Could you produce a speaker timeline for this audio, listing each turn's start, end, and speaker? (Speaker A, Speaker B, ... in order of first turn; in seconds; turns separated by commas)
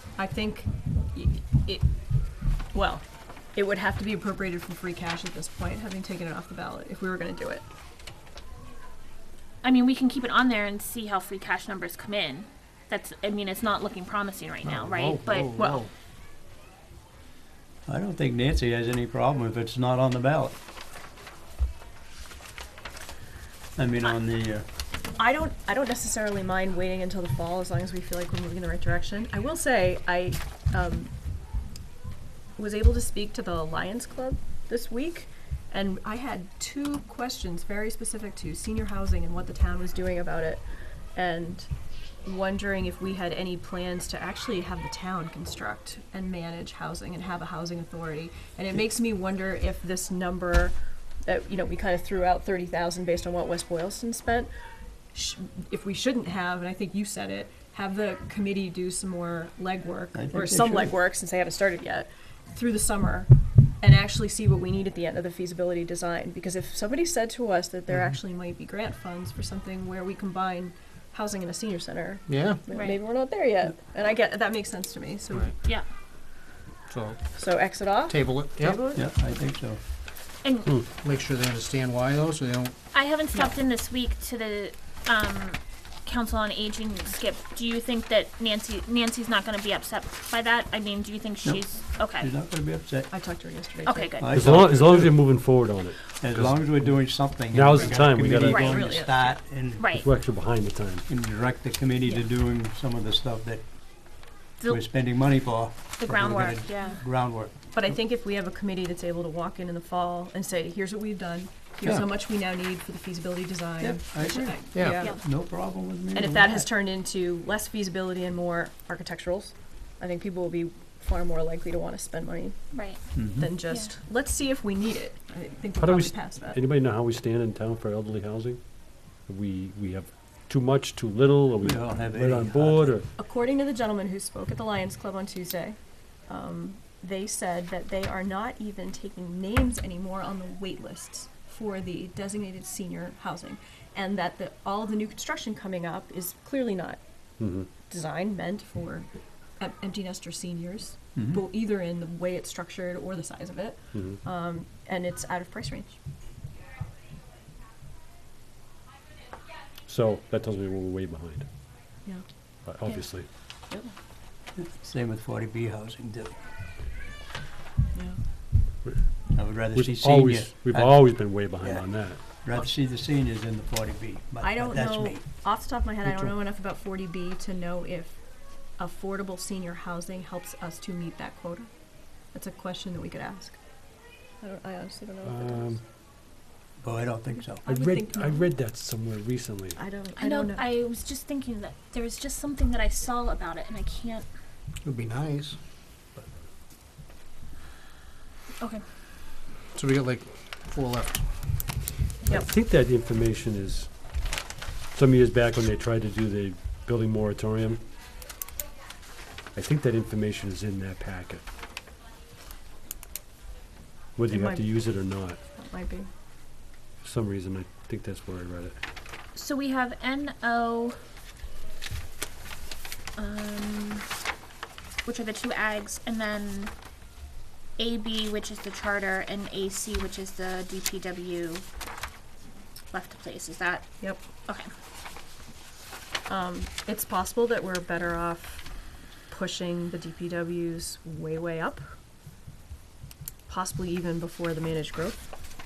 Speaker A: 0.2-1.9, Speaker A: 2.7-7.7, Speaker B: 9.6-15.6, Speaker C: 14.8-15.9, Speaker A: 15.6-15.8, Speaker D: 17.9-20.6, Speaker D: 23.8-24.7, Speaker A: 25.2-31.1, Speaker A: 32.6-40.6, Speaker A: 41.1-41.7, Speaker A: 42.2-54.5, Speaker A: 55.1-63.3, Speaker D: 60.1-60.9, Speaker A: 63.8-75.5, Speaker C: 72.3-72.6, Speaker B: 72.7-73.0, Speaker C: 76.9-78.8, Speaker A: 77.3-79.1, Speaker D: 78.9-79.8, Speaker B: 80.4-80.7, Speaker C: 80.8-83.0, Speaker B: 82.9-92.3, Speaker D: 91.4-93.1, Speaker A: 93.1-94.1, Speaker B: 93.8-94.4, Speaker D: 94.2-95.6, Speaker E: 94.3-98.6, Speaker D: 96.2-100.0, Speaker B: 98.5-98.8, Speaker A: 98.5-99.4, Speaker B: 99.8-100.1, Speaker E: 99.9-101.1, Speaker D: 101.1-104.1, Speaker B: 104.6-104.8, Speaker D: 104.7-108.0, Speaker B: 106.0-107.0, Speaker A: 107.7-115.2, Speaker D: 113.8-116.7, Speaker C: 114.7-115.1, Speaker A: 116.1-126.6, Speaker B: 122.7-123.1, Speaker D: 123.2-123.5, Speaker B: 123.7-123.9, Speaker E: 125.8-128.7, Speaker E: 129.2-133.1, Speaker D: 131.6-132.9, Speaker A: 133.2-147.0, Speaker E: 147.4-147.7, Speaker A: 147.8-156.0, Speaker D: 151.2-151.4, Speaker E: 153.9-154.2, Speaker E: 159.8-161.5, Speaker E: 162.7-163.3, Speaker D: 164.6-166.4, Speaker A: 167.9-168.2, Speaker E: 168.8-172.2, Speaker D: 169.3-175.2, Speaker A: 174.4-178.2, Speaker A: 178.8-181.7, Speaker A: 182.3-183.6, Speaker A: 184.4-185.8, Speaker E: 185.2-185.8, Speaker D: 186.8-187.6, Speaker A: 187.6-188.5, Speaker E: 187.7-189.8, Speaker A: 189.8-190.7, Speaker B: 190.2-194.3, Speaker C: 194.8-195.6, Speaker C: 199.7-201.2, Speaker E: 202.3-203.9, Speaker E: 204.9-207.8, Speaker E: 209.6-211.4, Speaker E: 214.2-215.4, Speaker A: 214.3-215.0, Speaker A: 215.5-216.1, Speaker E: 217.0-218.8, Speaker B: 219.3-221.0, Speaker B: 223.2-224.1, Speaker B: 225.1-226.7, Speaker B: 227.8-231.7, Speaker B: 232.9-233.9, Speaker B: 234.4-234.7, Speaker A: 236.3-238.7, Speaker A: 239.3-241.9, Speaker A: 243.5-245.2